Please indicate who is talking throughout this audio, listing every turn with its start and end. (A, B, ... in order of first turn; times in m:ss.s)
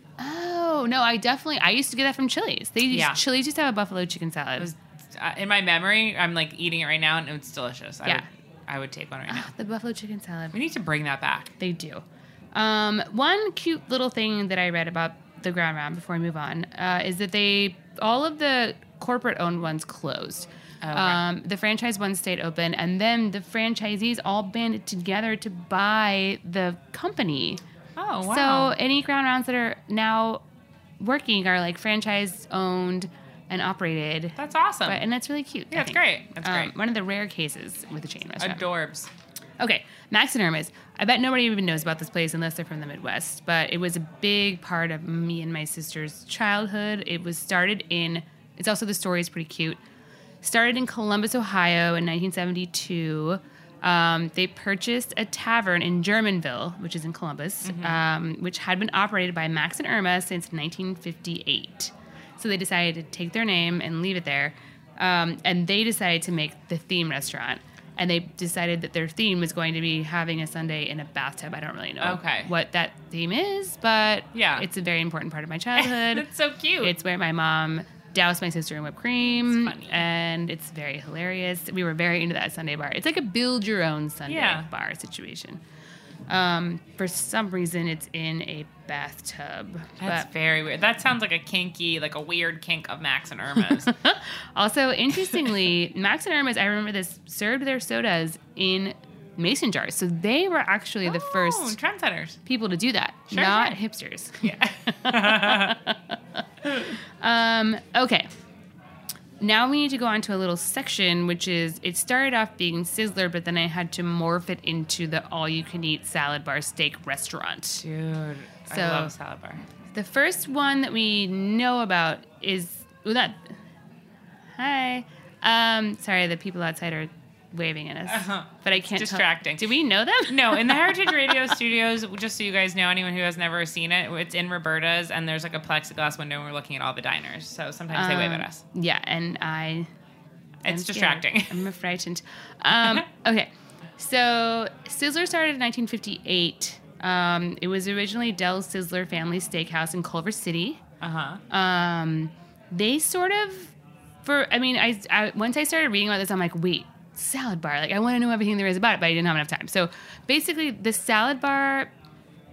0:00.2-0:04.7 A
0:02.9-0:03.2 B
0:04.6-0:09.5 B
0:09.3-0:10.6 A
0:10.5-0:11.5 B
0:11.6-0:12.0 A
0:12.5-0:27.6 A
0:20.8-0:21.2 B
0:28.0-0:28.8 B
0:28.2-0:30.4 A
0:31.0-0:38.6 A
0:34.4-0:35.0 B
0:35.7-0:36.7 B
0:38.4-0:39.1 B
0:39.6-0:49.8 A
0:50.4-1:16.3 A
0:57.6-0:58.0 B
1:12.0-1:12.5 B
1:14.3-1:14.6 B
1:15.8-1:16.9 B
1:16.8-1:25.6 A
1:19.2-1:20.0 B
1:24.3-1:24.7 B
1:26.3-1:30.3 A
1:30.0-1:33.9 B
1:33.8-1:41.8 A
1:35.1-1:35.5 B
1:41.0-1:42.4 B
1:42.4-1:46.0 A
1:43.3-1:43.8 B
1:44.4-1:45.8 B
1:46.7-1:48.3 A
1:49.4-1:57.8 A
1:57.8-1:59.6 B
1:58.7-1:59.1 A
1:59.9-2:03.5 A
2:04.6-2:11.5 A
2:08.1-2:09.7 B
2:10.2-2:18.6 B
2:17.9-2:19.9 A
2:20.6-2:21.7 B
2:20.6-2:30.8 A
2:22.8-2:23.0 B
2:31.0-2:31.4 B
2:31.5-2:33.7 A
2:34.2-2:41.9 A